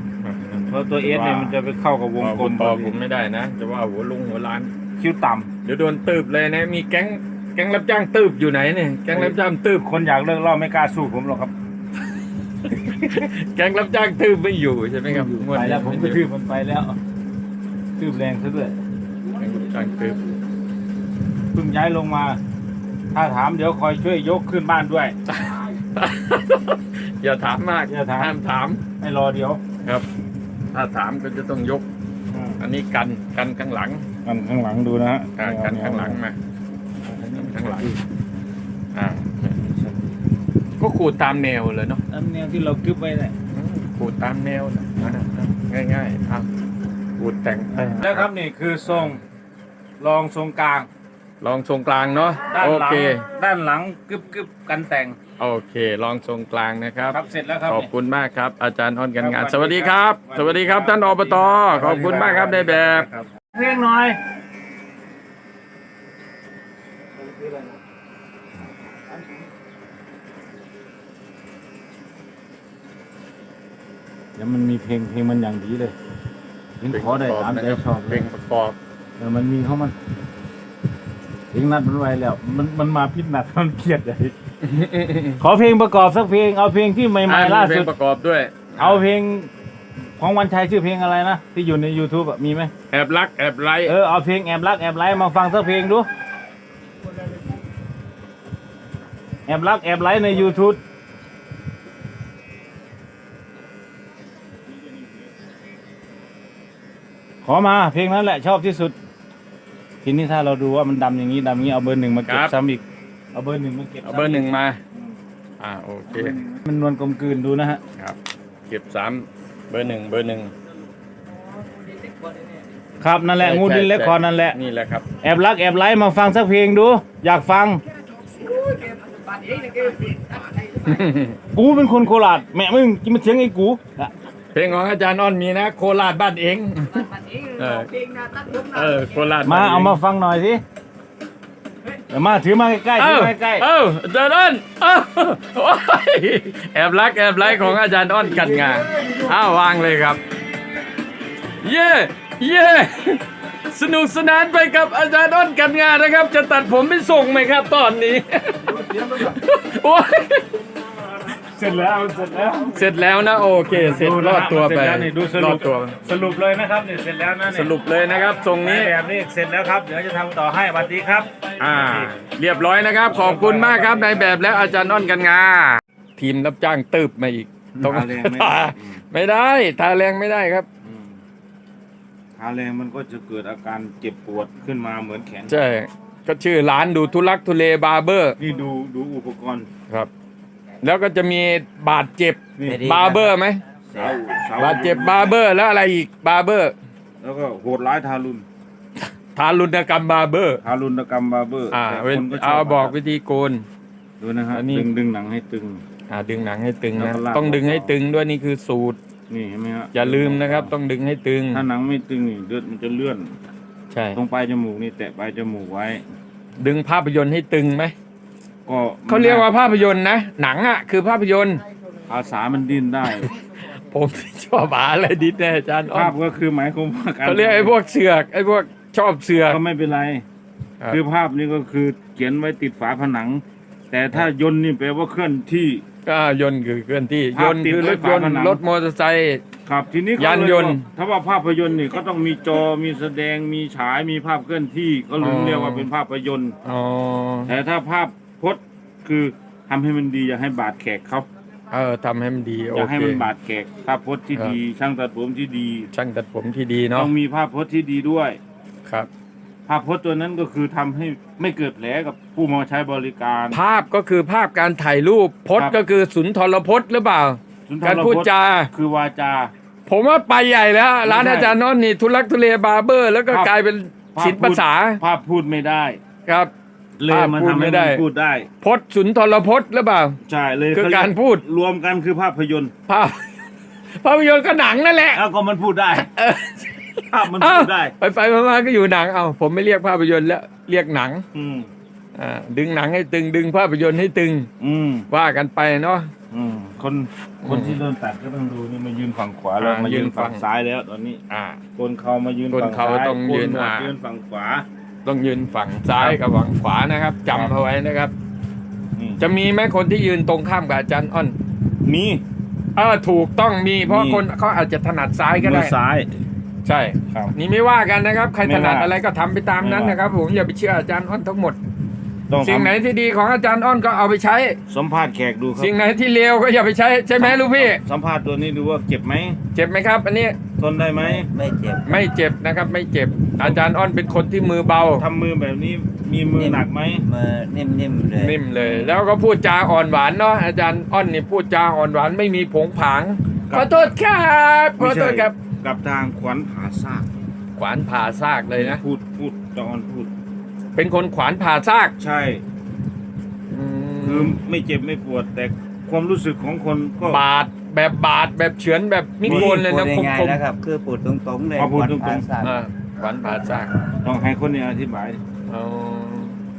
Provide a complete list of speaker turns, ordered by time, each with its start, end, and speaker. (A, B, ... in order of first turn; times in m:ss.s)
0:00.2-0:01.5 A
0:00.7-0:02.9 B
0:02.2-0:04.7 A
0:05.0-0:05.5 B
0:05.6-0:09.9 A
0:09.1-0:11.5 B
0:12.7-0:16.2 A
0:15.1-0:17.0 B
0:18.0-0:18.8 B
0:19.4-0:20.2 A
0:21.5-0:22.4 B
0:23.1-0:25.1 B
0:25.3-0:28.8 A
0:27.9-0:28.4 B
0:29.0-0:29.6 B
0:30.7-0:31.8 A
0:32.3-0:32.6 B
0:32.6-0:34.0 A
0:34.2-0:36.2 B
0:35.4-0:36.4 A
0:37.0-0:38.0 B
0:37.3-0:37.9 A
0:38.9-0:39.5 A
0:39.5-0:40.2 B
0:40.8-0:42.0 A
0:42.1-0:43.3 B
0:43.5-0:46.5 A
0:47.2-0:48.3 A
0:47.7-0:49.2 B
0:50.0-0:50.9 B
0:51.4-0:53.2 A
0:52.5-0:55.2 B
0:55.4-1:03.1 A
0:57.1-0:57.9 B
0:59.2-1:04.2 B
1:14.4-1:15.9 B
1:16.8-1:18.2 B
1:16.9-1:18.8 A
1:19.2-1:19.9 B
1:21.5-1:24.3 B
1:24.6-1:25.4 A
1:25.4-1:27.9 B
1:27.2-1:29.0 A
1:28.8-1:29.5 B
1:30.2-1:32.7 B
1:32.9-1:33.9 A
1:33.8-1:36.1 B
1:39.5-1:40.8 B
1:47.4-1:49.0 B
1:50.0-1:52.8 B
1:52.2-1:52.5 A
1:53.3-1:54.6 B
1:54.0-1:54.8 A
1:55.6-1:56.4 A
1:56.1-1:57.8 B
1:58.0-2:00.5 A
2:03.0-2:04.6 B
2:03.4-2:05.1 A
2:05.2-2:07.8 B
2:10.6-2:11.4 A
2:11.5-2:14.1 B
2:14.5-2:20.0 A
2:19.4-2:20.6 B
2:22.1-2:23.7 B
2:23.0-2:30.2 A
2:27.4-2:29.3 B
2:31.6-2:40.5 A
2:38.6-2:39.4 B
2:41.3-2:42.9 B
2:42.7-2:46.0 A
2:43.7-2:47.7 B
2:47.5-2:48.9 A
2:48.5-2:52.1 B
2:51.6-3:00.7 A
2:53.1-2:54.8 B
2:57.8-2:59.0 B
3:00.8-3:01.2 B
3:02.4-3:05.6 B
3:05.5-3:08.4 A
3:08.4-3:09.7 B
3:10.8-3:13.6 A
3:12.6-3:12.9 B
3:12.6-3:13.4 C
3:13.9-3:15.4 B
3:14.6-3:16.7 A
3:17.2-3:18.4 B
3:19.3-3:20.6 A
3:20.6-3:23.0 B
3:21.7-3:23.6 A
3:24.2-3:25.8 B
3:24.5-3:24.9 A
3:26.1-3:29.0 A
3:26.9-3:28.0 B
3:29.3-3:30.7 B
3:29.9-3:31.6 A
3:31.5-3:33.3 B
3:33.9-3:34.2 A
3:34.1-3:36.0 B
3:36.6-3:37.9 A
3:38.7-3:39.5 B
3:39.1-3:41.6 A
3:42.1-3:43.3 B
3:43.0-3:43.4 A
3:43.9-3:46.1 A
3:45.9-3:47.7 B
3:47.2-3:49.6 A
3:49.4-3:50.2 B
3:50.9-3:55.8 B
3:56.0-3:59.4 A
3:57.3-3:58.6 B
3:59.6-4:06.5 B
4:00.2-4:00.8 A
4:05.2-4:05.9 A
4:06.6-4:07.5 A
4:07.4-4:11.3 B
4:11.7-4:13.2 A
4:12.7-4:15.9 B
4:15.9-4:17.1 A
4:16.9-4:18.4 B
4:19.7-4:23.6 B
4:23.5-4:28.7 A
4:27.7-4:29.5 B
4:29.9-4:35.0 A
4:31.0-4:31.5 B
4:33.3-4:33.5 B
4:34.1-4:36.0 B
4:36.2-4:36.5 A
4:37.0-4:38.5 B
4:37.1-4:38.0 A
4:38.6-4:40.2 A
4:40.2-4:42.7 B
4:40.7-4:41.4 A
4:42.9-4:43.3 A
4:43.9-4:45.2 A
4:45.1-4:46.1 B
4:46.0-4:51.2 A
4:47.1-4:47.9 B
4:51.3-4:51.7 B
4:52.1-4:54.5 A
4:54.6-4:55.1 B
4:55.1-4:56.1 A
4:56.3-5:01.2 B
4:57.4-4:57.8 A
4:59.6-5:00.4 A
5:01.3-5:01.6 A
5:01.8-5:04.6 B
5:02.5-5:03.9 A
5:05.0-5:08.1 A
5:07.3-5:07.6 B
5:09.0-5:09.2 B
5:09.2-5:11.3 A
5:11.8-5:12.2 B
5:12.8-5:15.7 A
5:13.8-5:14.2 B
5:15.4-5:16.1 B
5:16.6-5:21.6 A
5:18.4-5:18.9 B
5:19.6-5:20.0 B
5:22.3-5:22.7 B
5:22.4-5:24.6 A
5:24.7-5:25.7 B
5:25.6-5:27.8 A
5:27.2-5:29.4 B
5:29.5-5:30.4 A
5:30.6-5:31.3 B
5:31.0-5:32.0 C
5:31.8-5:35.0 A
5:34.9-5:37.1 B
5:36.3-5:38.9 C
5:38.1-5:45.3 A
5:43.5-5:44.0 B
5:44.8-5:47.1 B
5:47.6-5:48.8 A
5:48.5-5:50.1 B
5:50.7-5:51.9 A
5:52.0-5:52.4 B
5:53.5-5:54.4 A
5:54.0-5:57.2 B
5:57.0-6:00.4 A
5:59.2-6:02.6 C
5:59.2-5:59.6 B
6:01.6-6:02.3 B
6:02.4-6:03.7 A
6:04.0-6:05.2 B
6:05.5-6:06.4 A